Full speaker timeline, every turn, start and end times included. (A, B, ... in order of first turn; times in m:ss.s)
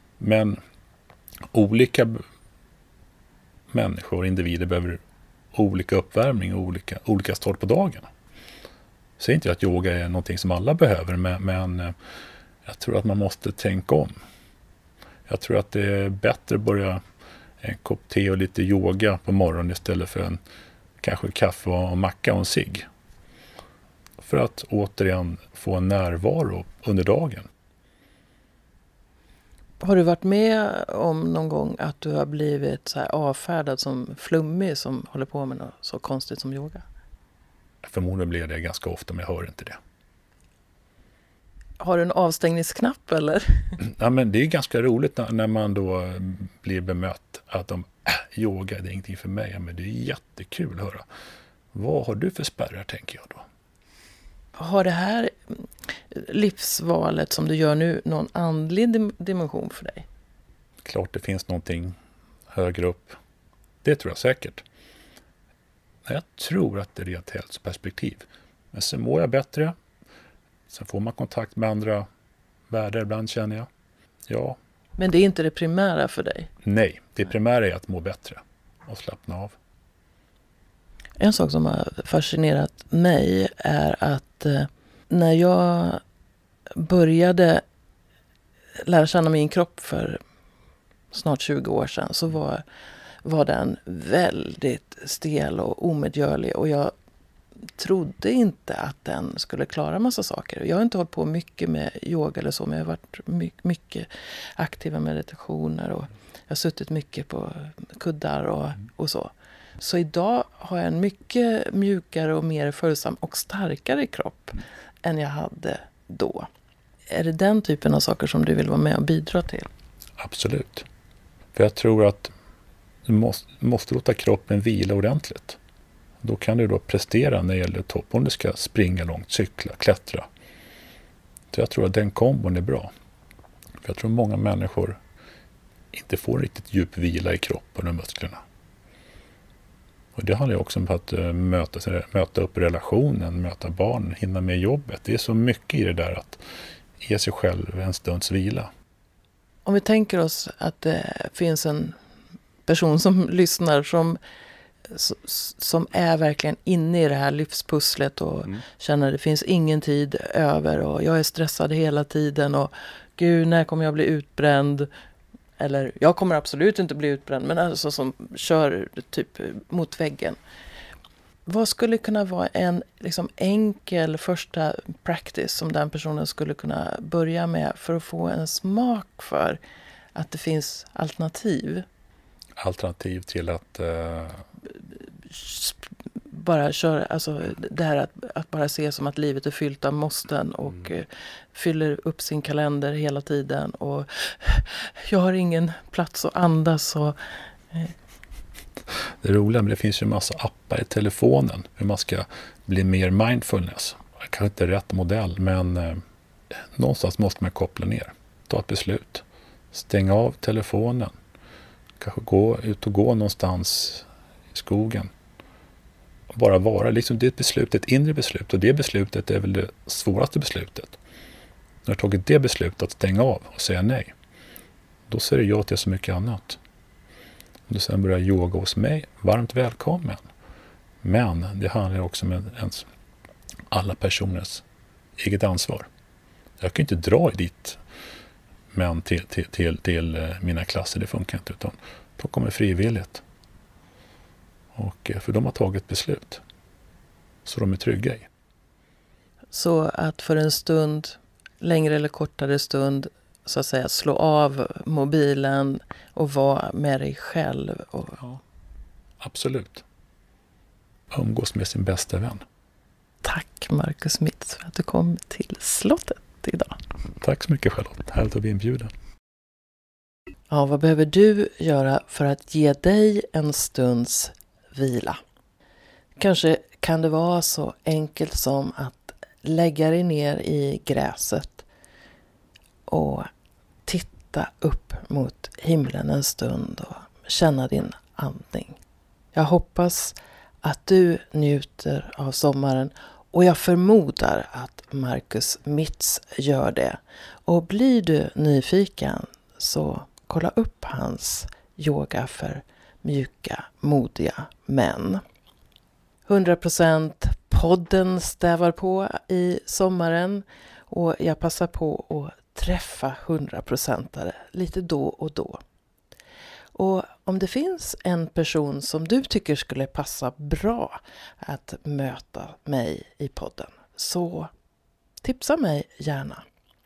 0:00.2-0:00.6 A
0:01.5-0:02.2 A
0:03.7-0:05.0 A
0:05.5-0:08.1 A
0:09.2-0:11.9 A
0:12.6-0:14.2 A
0:15.3-0:17.0 A
0:17.6-0:20.4 A
0:21.0-0:22.9 A
0:24.2-0:27.5 A
0:29.8-0:36.8 B
0:37.8-0:39.8 A
0:41.8-0:43.8 B
0:43.8-0:51.0 A
0:51.7-0:53.4 A
0:54.6-1:00.1 B
1:00.8-1:02.0 A
1:02.5-1:03.2 A
1:03.8-1:04.6 A
1:06.1-1:09.8 A
1:10.7-1:12.1 A
1:12.7-1:13.7 A
1:14.3-1:14.6 A
1:15.0-1:16.5 B
1:16.6-1:19.6 A
1:21.2-1:26.0 B
1:26.8-1:27.6 B
1:28.8-1:30.2 B
1:31.1-1:32.6 B
1:33.2-1:36.9 B
1:37.8-1:56.5 B
1:57.1-1:59.7 B
2:00.2-2:00.9 A
2:01.5-2:02.3 A
2:03.0-2:05.6 A
2:06.2-2:10.3 A
2:11.5-2:12.9 A
2:13.8-2:15.0 A
2:15.9-2:18.4 A
2:20.2-2:26.4 A
2:27.0-2:28.7 A
2:29.7-2:32.0 B
2:32.7-2:34.2 B
2:34.9-2:44.9 B
2:45.6-2:50.4 B
2:51.5-2:59.6 B
3:00.2-3:01.9 B
3:02.6-3:04.4 A
3:04.9-3:17.2 B
3:18.9-3:31.1 A
3:32.0-3:35.1 A
3:36.3-3:41.0 A
3:41.8-3:44.1 A
3:45.1-3:46.6 A
3:47.7-3:50.2 A
3:51.0-3:52.9 A
3:53.7-3:54.6 A
3:55.2-3:55.9 A
3:56.6-3:57.8 A
3:58.7-4:03.2 A
4:04.8-4:06.4 A
4:07.4-4:08.3 A
4:09.5-4:18.2 B
4:19.2-4:19.8 A
4:21.1-4:22.4 A
4:23.2-4:26.8 B
4:27.2-4:28.9 A
4:30.5-4:35.2 B
4:36.2-4:41.6 B
4:42.9-4:43.3 B
4:43.9-4:48.8 B
4:49.3-5:05.2 B
5:06.3-5:15.6 B
5:16.8-5:24.5 B
5:25.2-5:26.4 B